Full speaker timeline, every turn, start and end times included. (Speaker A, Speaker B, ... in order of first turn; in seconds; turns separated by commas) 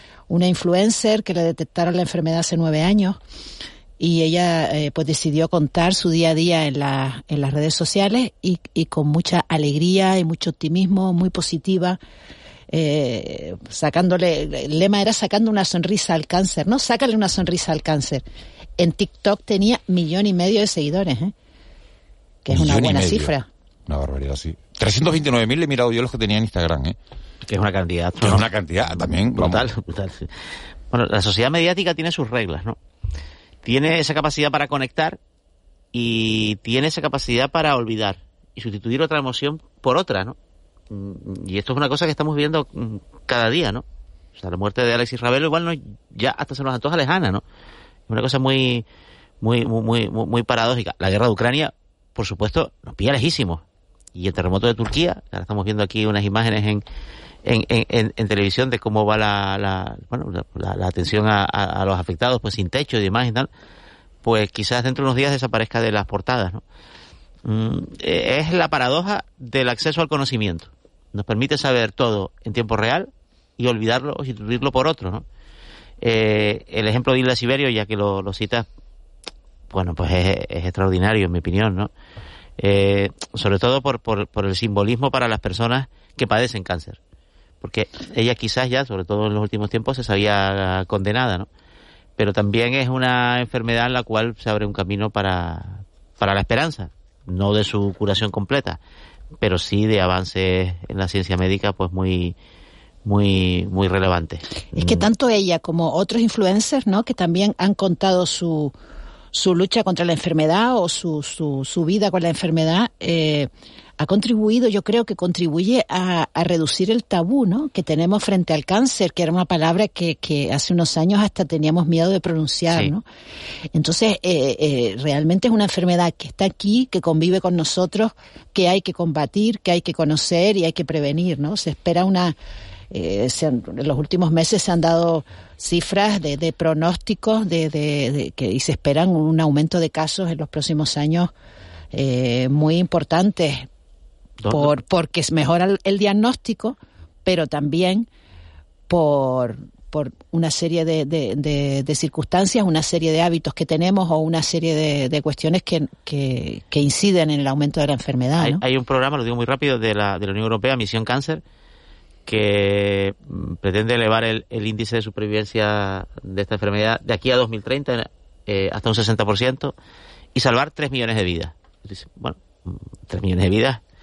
Speaker A: 0.3-3.2, Speaker A: 4.0-12.0, Speaker A: 12.7-18.2, Speaker A: 18.8-21.3, Speaker A: 22.4-23.5, Speaker B: 22.5-23.3, Speaker B: 23.9-27.0, Speaker C: 27.5-30.3, Speaker B: 28.2-29.7, Speaker C: 30.9-32.8, Speaker C: 33.6-35.2, Speaker C: 35.9-40.4, Speaker C: 40.9-43.8, Speaker C: 44.4-47.4, Speaker C: 48.1-48.9, Speaker C: 49.4-53.6, Speaker C: 54.1-56.8, Speaker C: 57.5-63.5, Speaker C: 64.2-66.6, Speaker C: 67.5-75.2, Speaker C: 76.0-78.7, Speaker C: 79.7-81.9, Speaker C: 82.6-87.0, Speaker C: 87.6-91.5, Speaker C: 92.2-98.8, Speaker C: 99.4-102.3, Speaker C: 103.0-105.1, Speaker A: 104.7-108.7, Speaker A: 109.3-123.0, Speaker A: 123.7-132.3, Speaker A: 132.9-141.3, Speaker A: 141.9-143.7, Speaker C: 144.4-144.7, Speaker A: 144.5-148.1, Speaker A: 148.9-158.6, Speaker C: 158.4-161.4, Speaker C: 162.3-169.7, Speaker C: 170.3-173.8